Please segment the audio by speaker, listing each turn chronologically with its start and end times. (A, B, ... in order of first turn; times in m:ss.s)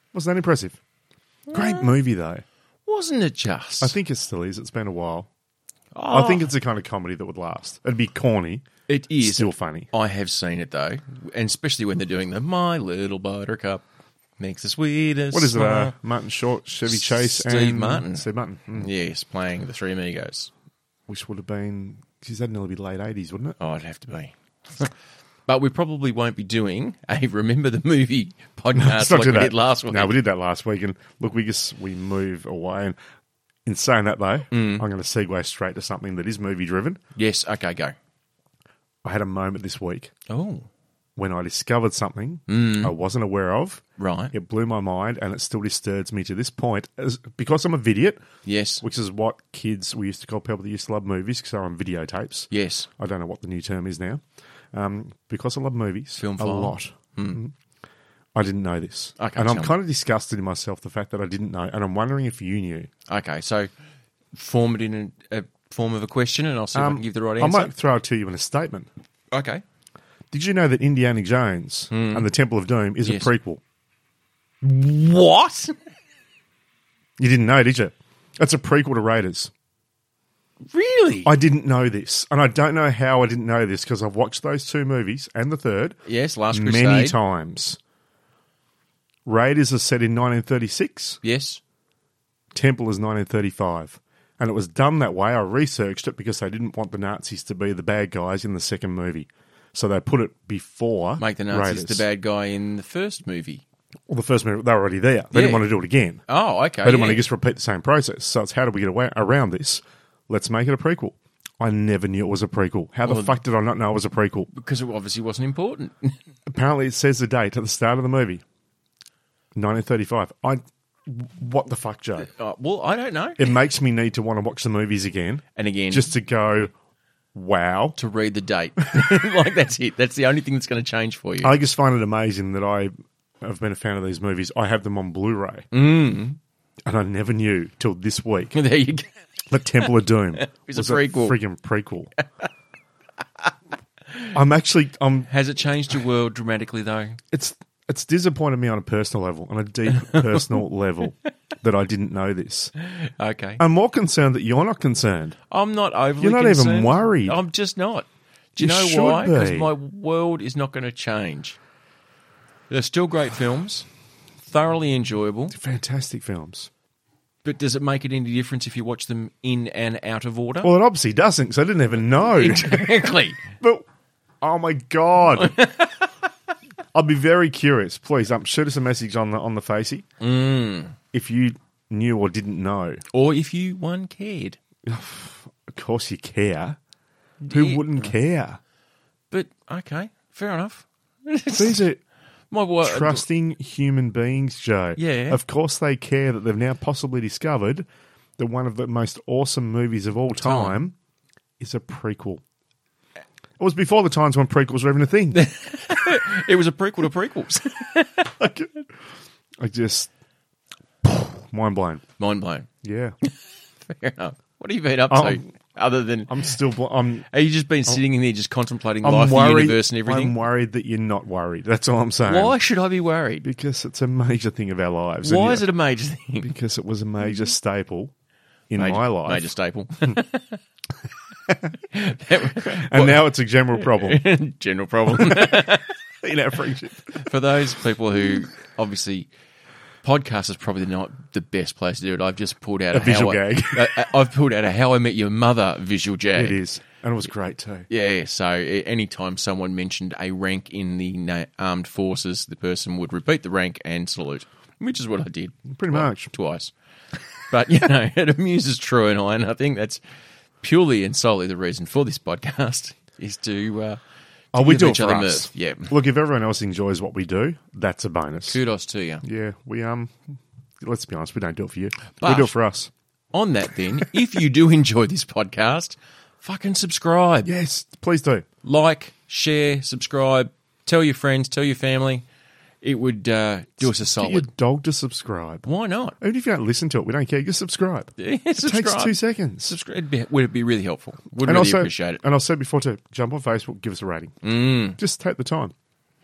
0:00.1-0:00.8 A
0:01.5-0:02.4 A
0:01.5-0:01.9 B
0:02.9-0:04.0 B
0:03.8-0:05.3 A
0:06.0-0:06.5 B
0:06.1-0:08.6 A
0:08.9-0:13.8 B
0:09.2-0:09.9 A
0:14.4-0:16.0 B
0:15.3-0:18.9 A
0:16.9-0:20.5 B
0:21.1-0:23.6 A
0:23.6-0:24.9 B
0:25.5-0:30.2 B
0:28.7-0:33.0 A
0:33.7-0:37.0 A
0:34.5-0:34.9 B
0:37.2-0:38.0 B
0:39.0-0:40.1 A
0:40.3-0:40.7 B
0:41.2-0:48.2 A
0:42.5-0:42.9 B
0:44.0-0:44.3 B
0:48.4-0:48.8 B
0:48.8-0:52.5 A
0:52.5-0:52.9 B
0:53.0-0:54.2 A
0:54.7-0:57.5 A
0:56.2-0:57.4 B
0:58.4-1:02.9 A
0:59.2-0:59.8 B
1:03.1-1:03.7 B
1:04.3-1:07.7 B
1:06.8-1:08.9 A
1:09.3-1:09.6 B
1:10.3-1:13.6 A
1:11.9-1:12.3 B
1:13.0-1:13.3 B
1:14.6-1:15.8 B
1:17.2-1:19.5 A
1:20.7-1:21.3 B
1:21.2-1:26.0 A
1:26.1-1:27.2 B
1:26.5-1:27.8 A
1:29.3-1:31.2 A
1:31.2-1:31.6 B
1:32.5-1:42.0 A
1:41.2-1:43.6 B
1:44.1-1:46.2 A
1:45.3-1:45.7 B
1:46.3-1:47.3 B
1:46.8-1:54.5 A
1:53.1-1:53.4 B
1:54.5-1:56.2 B
1:56.5-1:58.4 A
1:59.6-2:02.3 A
2:02.2-2:03.5 B
2:03.4-2:06.7 A
2:05.6-2:06.2 B
2:07.3-2:08.0 A
2:08.0-2:11.6 B
2:11.4-2:15.7 A
2:15.7-2:16.4 B
2:16.9-2:18.6 A
2:18.5-2:19.1 B
2:19.5-2:22.1 A
2:20.4-2:21.4 B
2:24.3-2:25.3 A
2:25.3-2:27.2 B
2:27.3-2:32.7 A
2:29.9-2:30.6 B
2:32.8-2:33.6 B
2:33.6-2:35.4 A
2:35.5-2:41.6 B
2:36.2-2:37.4 A
2:38.6-2:39.7 A
2:42.7-2:43.9 B
2:44.5-2:45.6 B
2:45.5-2:46.7 A
2:47.4-2:50.7 B
2:50.6-2:53.0 A
2:52.1-2:53.5 B
2:53.6-2:53.8 A
2:54.4-2:55.6 A
2:55.3-2:56.0 B
2:56.9-3:00.1 A
3:00.2-3:01.0 B
3:01.1-3:03.0 A
3:03.1-3:04.6 B
3:04.9-3:06.8 A
3:07.4-3:08.1 B
3:07.5-3:08.6 A
3:09.3-3:11.8 B
3:11.5-3:12.0 A
3:12.5-3:13.2 B
3:12.8-3:17.9 A
3:15.0-3:15.4 B
3:18.4-3:21.0 A
3:20.4-3:20.8 B
3:21.6-3:22.4 A
3:23.6-3:25.5 A
3:25.3-3:28.3 B
3:28.2-3:28.9 A
3:29.6-3:30.1 A
3:31.0-3:32.0 A
3:32.2-3:32.7 B
3:32.8-3:33.2 A
3:33.2-3:36.5 B
3:35.1-3:35.4 A
3:36.3-3:37.3 A
3:37.3-3:40.4 B
3:39.0-3:42.6 A
3:42.3-3:43.5 B
3:43.4-3:45.7 A
3:45.2-3:46.5 B
3:46.4-3:48.1 A
3:48.7-3:49.5 A
3:48.8-3:50.6 B
3:51.5-3:51.8 A
3:51.8-3:56.0 B
3:52.6-3:54.2 A
3:55.1-3:57.3 A
3:57.2-3:59.3 B
4:00.0-4:06.6 B
4:02.9-4:04.1 A
4:06.4-4:07.9 A
4:07.9-4:16.7 B
4:15.7-4:16.3 A
4:17.5-4:20.0 B
4:20.6-4:24.0 B
4:24.5-4:28.6 A
4:24.6-4:25.9 B
4:28.4-4:29.2 B
4:29.2-4:30.1 A
4:30.8-4:32.9 A
4:32.1-4:32.5 B
4:33.3-4:37.5 B
4:37.4-4:38.5 A
4:38.6-4:42.2 B
4:42.8-4:44.5 B
4:43.9-4:45.6 A
4:45.6-4:46.2 B
4:46.2-4:49.8 A
4:48.2-4:52.2 B
4:51.4-4:54.4 A
4:54.4-4:55.0 B
4:55.0-4:55.7 A